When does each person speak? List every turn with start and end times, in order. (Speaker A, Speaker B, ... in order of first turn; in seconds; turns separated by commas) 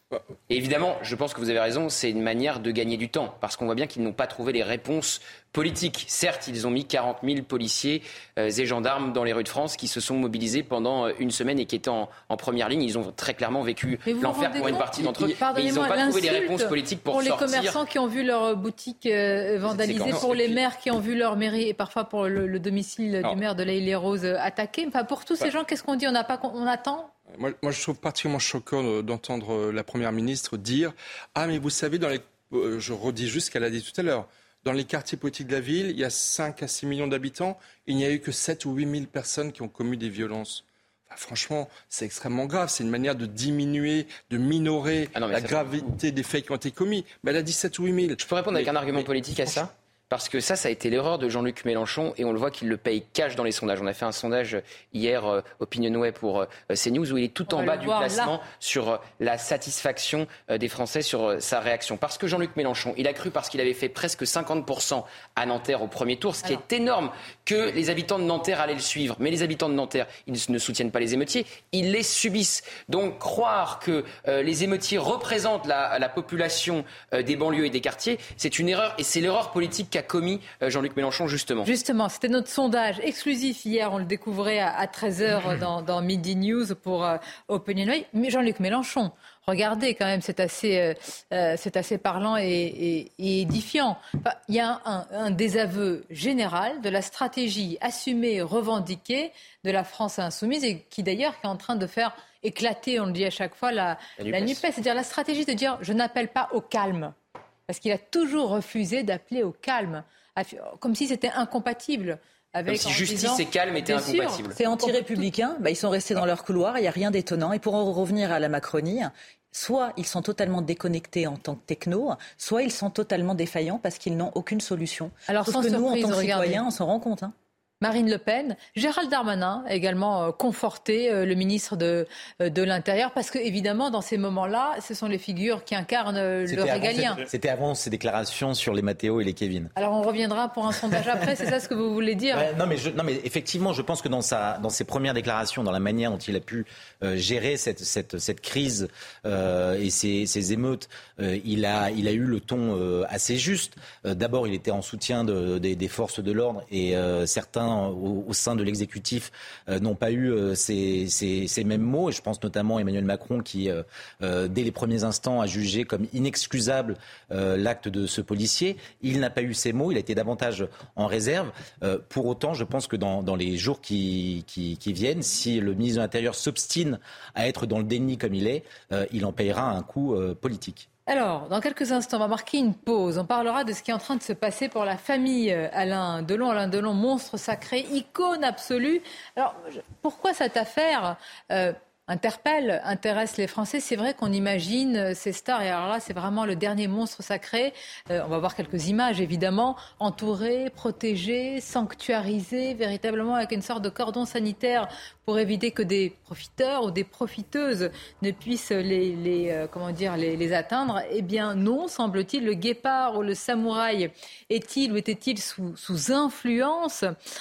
Speaker A: 0.5-17.8, Speaker B: 14.1-27.1, Speaker A: 19.8-20.6, Speaker C: 27.3-49.6, Speaker A: 45.1-45.9, Speaker A: 48.2-81.7, Speaker B: 57.5-58.3, Speaker B: 81.6-107.1, Speaker A: 104.2-104.6, Speaker B: 107.7-115.2, Speaker A: 112.7-114.6, Speaker D: 114.5-127.3, Speaker B: 125.3-126.6, Speaker B: 127.8-137.2, Speaker E: 136.5-139.7, Speaker B: 139.8-142.5, Speaker E: 142.3-180.9, Speaker B: 181.1-217.1